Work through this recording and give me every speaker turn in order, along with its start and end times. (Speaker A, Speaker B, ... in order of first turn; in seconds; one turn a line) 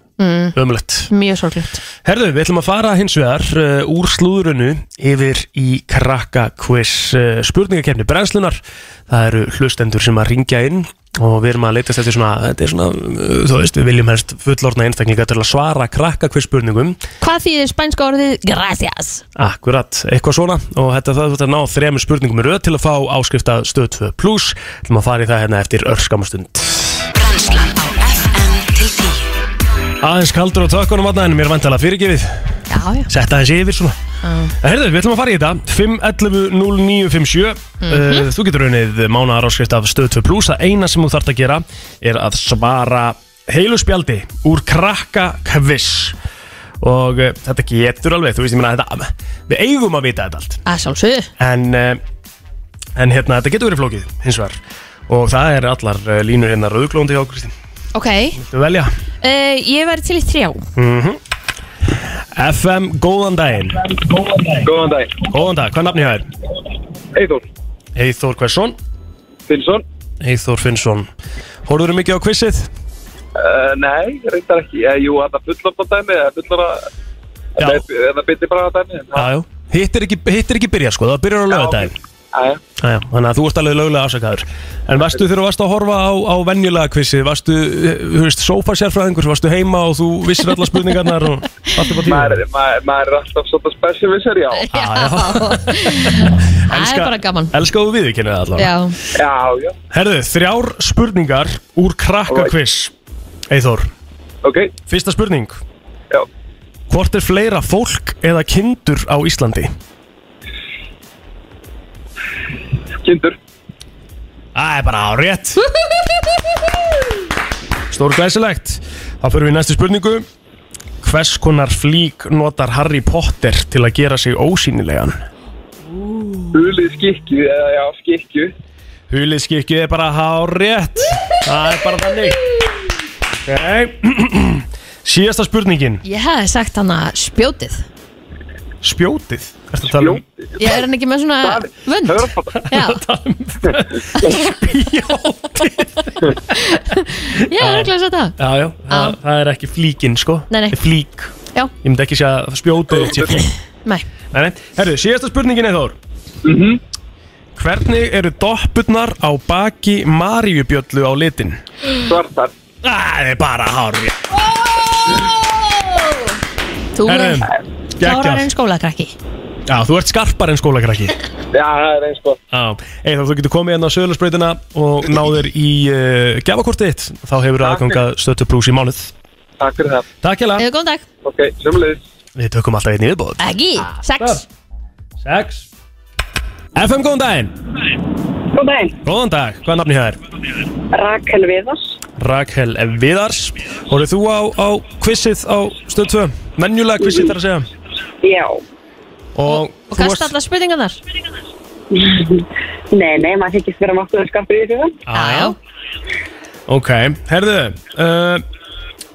Speaker A: 0.2-0.6
Speaker B: 0.5-1.1
Speaker A: 1.1-1.8
Speaker B: 2.0-17.0
Speaker A: 17.2-19.2
Speaker B: 19.4-27.1
Speaker C: 27.1-29.3
Speaker B: 30.0-32.3
Speaker A: 32.7-33.1
Speaker B: 33.1-34.0
Speaker A: 34.2-34.5
Speaker B: 34.6-46.2
Speaker A: 37.8-38.3
Speaker B: 46.8-50.6
Speaker A: 50.6-51.3
Speaker B: 51.4-52.0
Speaker B: 53.0-57.5
Speaker A: 57.9-58.4
Speaker B: 58.4-58.9
Speaker A: 59.2-60.7
Speaker B: 60.8-61.2
Speaker B: 62.3-64.0
Speaker D: 64.1-65.2
Speaker B: 65.2-66.3
Speaker D: 67.1-67.4
Speaker B: 67.9-68.8
Speaker D: 69.5-69.8
Speaker B: 70.2-71.1
Speaker B: 71.6-72.7
Speaker D: 73.4-76.9
Speaker D: 77.5-79.3
Speaker B: 77.6-77.8
Speaker B: 79.1-82.0
Speaker D: 81.5-82.6
Speaker B: 82.8-92.4
Speaker D: 92.0-94.7
Speaker A: 94.6-97.5
Speaker B: 94.7-98.7
Speaker A: 98.6-99.0
Speaker D: 99.1-99.8
Speaker B: 99.9-102.9
Speaker B: 103.5-103.9
Speaker D: 104.4-104.7
Speaker B: 104.9-105.6
Speaker B: 106.9-109.7
Speaker D: 113.0-113.4
Speaker B: 114.5-115.7
Speaker B: 117.9-120.3
Speaker B: 121.0-125.2
Speaker D: 126.5-128.5
Speaker B: 129.1-132.4
Speaker B: 133.4-136.0
Speaker A: 136.0-137.9
Speaker B: 138.8-140.2
Speaker D: 139.9-140.8
Speaker A: 140.6-143.0
Speaker D: 141.4-142.6
Speaker B: 142.6-146.3
Speaker A: 146.5-148.4
Speaker B: 147.4-153.5
Speaker A: 148.9-149.2
Speaker A: 150.5-150.8
Speaker D: 153.0-153.4
Speaker B: 154.3-156.0
Speaker D: 156.4-156.8
Speaker B: 157.6-161.6
Speaker D: 162.0-162.5
Speaker B: 162.8-165.9
Speaker A: 166.9-167.5
Speaker B: 167.0-168.5
Speaker A: 168.0-169.1
Speaker B: 169.7-171.2
Speaker D: 171.5-172.4
Speaker B: 172.5-179.1
Speaker D: 177.6-178.0
Speaker D: 179.6-180.1
Speaker B: 180.2-180.6
Speaker A: 180.6-181.0
Speaker D: 181.2-182.0
Speaker B: 182.4-184.4
Speaker A: 183.4-184.4
Speaker B: 185.2-185.7
Speaker B: 186.7-187.5
Speaker E: 188.5-189.0
Speaker B: 189.0-190.2
Speaker E: 190.9-192.0
Speaker B: 192.2-197.7
Speaker E: 197.0-197.3
Speaker E: 198.2-198.6
Speaker B: 199.3-200.3
Speaker A: 199.5-201.0
Speaker E: 201.9-205.0
Speaker B: 205.1-205.6
Speaker A: 205.1-205.6
Speaker B: 206.7-208.4